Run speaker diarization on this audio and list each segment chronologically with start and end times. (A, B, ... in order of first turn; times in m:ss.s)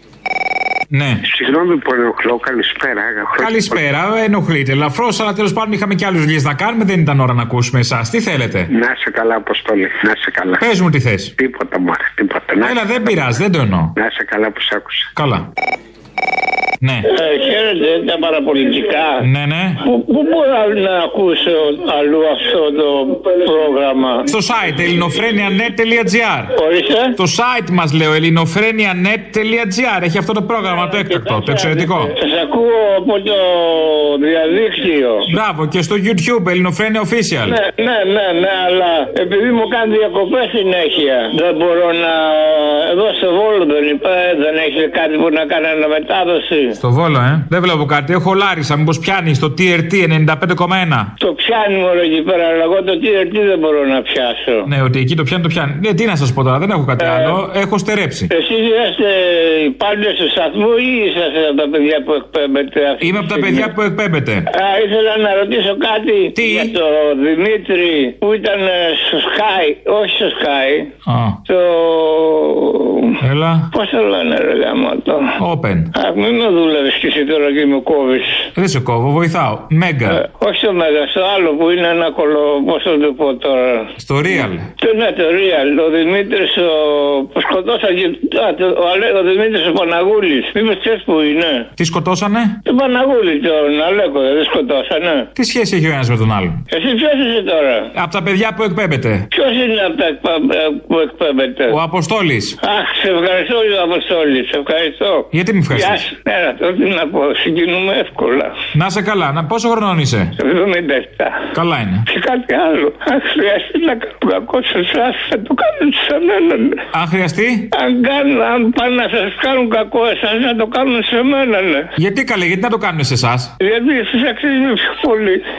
0:00.9-0:01.2 A
0:01.2-0:03.8 B
0:03.4-0:08.7 A
0:08.7-0:10.6 B
0:10.6-0:11.3 A
0:11.4-0:13.2 B
0:12.6-0:13.9 A
0:14.0-0:15.1 B
0:15.2-0:15.5 A
0:16.8-0:17.1 A
0:17.1-0:19.2 C
0:19.2-0:19.8 A
0:19.9-0:24.3 C
0:24.3-0:26.5 A
0:26.6-0:27.1 C
0:27.2-0:32.1 A
0:30.7-0:35.3 C
0:35.3-0:37.6 A
0:37.5-0:46.8 C
0:46.8-0:51.1 A
0:51.2-0:54.7 C
0:54.7-0:58.3 A
0:57.0-0:57.4 C
0:58.3-1:03.7 C
1:03.0-1:04.5 A
1:04.5-1:10.9 C
1:06.4-1:06.7 A
1:11.1-1:11.4 A
1:11.5-1:13.2 C
1:13.2-1:13.7 A
1:13.7-1:15.3 C
1:15.4-1:15.9 A
1:16.0-1:18.4 C
1:18.6-1:20.2 A
1:20.1-1:31.7 C
1:24.0-1:24.7 A
1:31.8-1:32.6 A
1:32.7-1:35.3 C
1:35.4-1:36.6 A
1:36.7-1:37.9 C
1:38.0-1:39.3 A
1:39.3-1:41.7 C
1:41.7-1:42.6 A
1:42.6-1:48.5 C
1:45.3-1:46.0 A
1:48.8-1:50.3 A
1:50.4-1:51.4 C
1:51.6-1:52.0 A
1:52.1-1:56.8 C
1:56.9-1:57.7 A
1:57.7-2:01.9 C
2:02.0-2:03.5 A
2:03.6-2:05.4 C